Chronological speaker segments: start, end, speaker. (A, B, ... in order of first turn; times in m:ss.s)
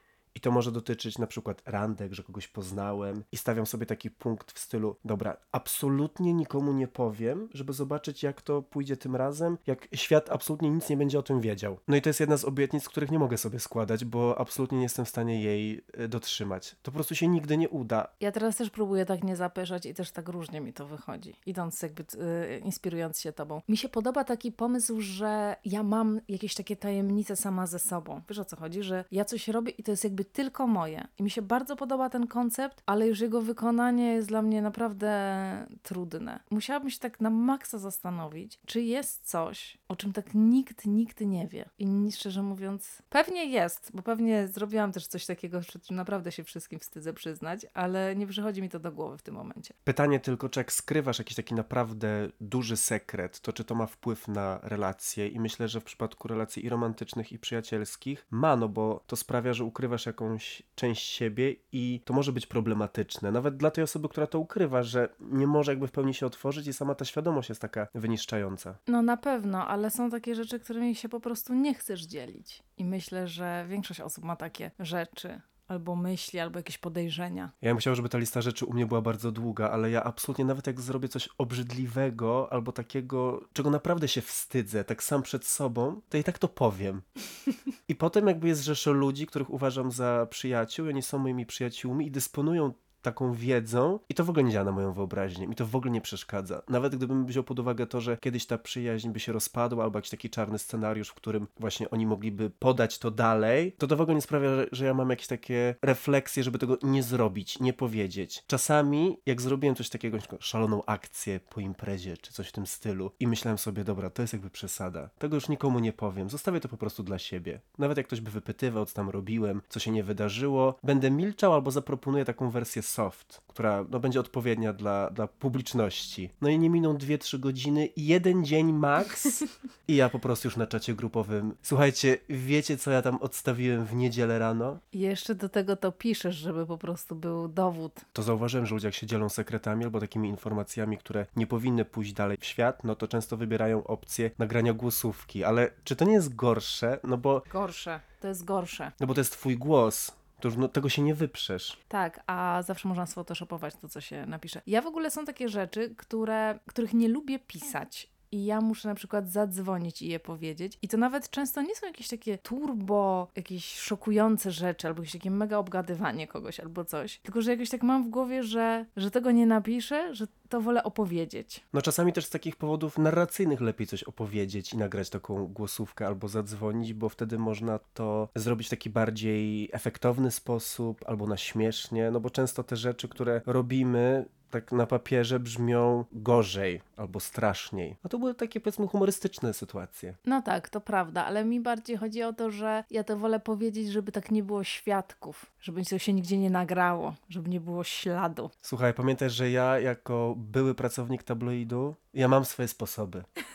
0:00.3-0:18.1 A
0:18.2-0:49.7 B
0:49.9-1:08.8 A
1:08.9-1:17.5 B
1:17.6-1:27.0 A
1:27.9-2:14.8 A
2:14.9-2:18.0 B
2:18.1-2:27.5 A
2:27.5-2:29.0 B
2:29.0-2:31.8 A
2:31.9-2:51.6 B
2:51.7-3:10.2 A
3:10.2-3:18.5 B
3:18.6-3:23.3 A